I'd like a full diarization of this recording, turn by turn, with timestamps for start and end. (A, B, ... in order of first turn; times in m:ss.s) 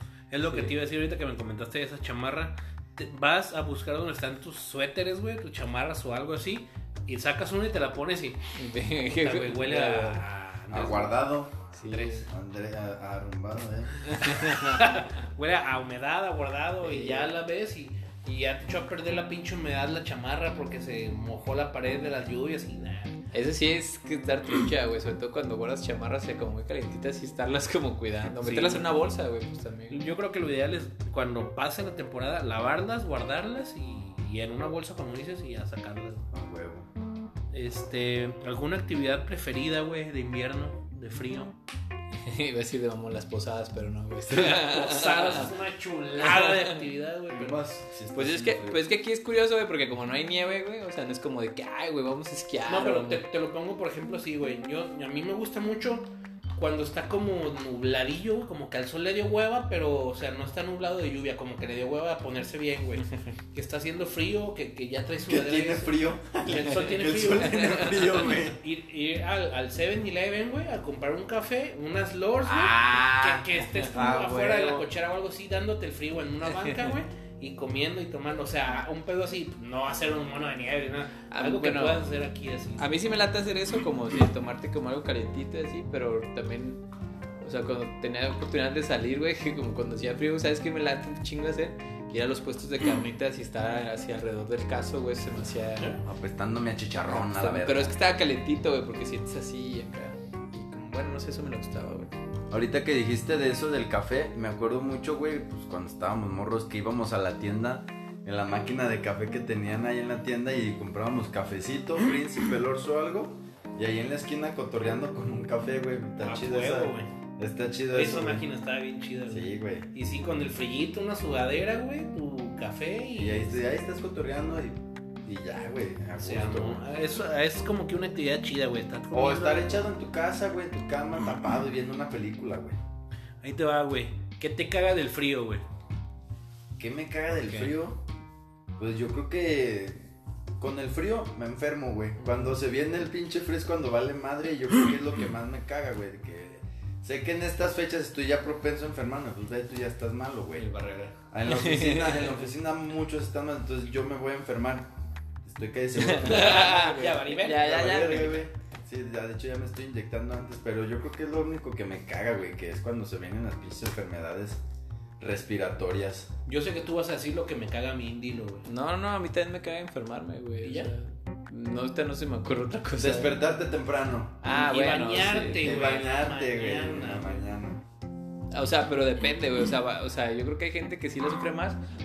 0:00.3-0:08.4 A
0:08.5-0:10.2 B
0:09.1-0:11.2 A
0:10.7-0:14.0 C
0:11.8-0:12.1 B
0:11.9-0:12.3 A
0:14.1-0:14.9 B
0:14.1-0:23.2 A
0:16.8-0:17.3 B
0:23.3-0:30.1 B
0:28.4-0:28.9 A
0:29.9-0:36.2 A
0:36.3-0:36.9 C
0:37.5-0:41.6 A
0:42.2-0:45.5 B
0:44.3-0:47.6 A
0:46.2-0:46.8 B
0:47.3-0:48.8 C
0:48.1-0:53.2 B
0:52.6-1:22.9 A
1:05.3-1:08.6 C
1:07.3-1:08.0 B
1:12.4-1:14.9 B
1:16.6-1:16.9 B
1:21.3-1:22.1 B
1:22.8-1:26.8 B
1:27.4-1:35.9 B
1:36.0-1:38.0 C
1:37.1-1:42.1 B
1:42.5-1:58.4 C
1:56.2-1:57.1 A
1:57.9-2:03.6 A
1:59.3-1:59.9 C
2:03.2-2:06.8 C
2:06.2-2:09.8 A
2:09.1-2:12.8 C
2:13.4-2:15.6 A
2:16.8-2:18.0 C
2:17.4-2:17.7 A
2:18.8-2:30.7 C
2:30.6-2:31.1 A
2:31.3-2:44.6 C
2:31.5-2:32.4 B
2:36.0-2:38.4 B
2:36.2-2:37.8 A
2:45.2-2:46.3 C
2:46.4-2:48.7 A
2:48.6-2:53.4 B
2:50.6-2:50.9 A
2:53.0-2:54.4 C
2:54.4-2:55.9 B
2:54.4-2:57.5 A
2:55.5-2:57.8 C
2:58.5-3:01.8 B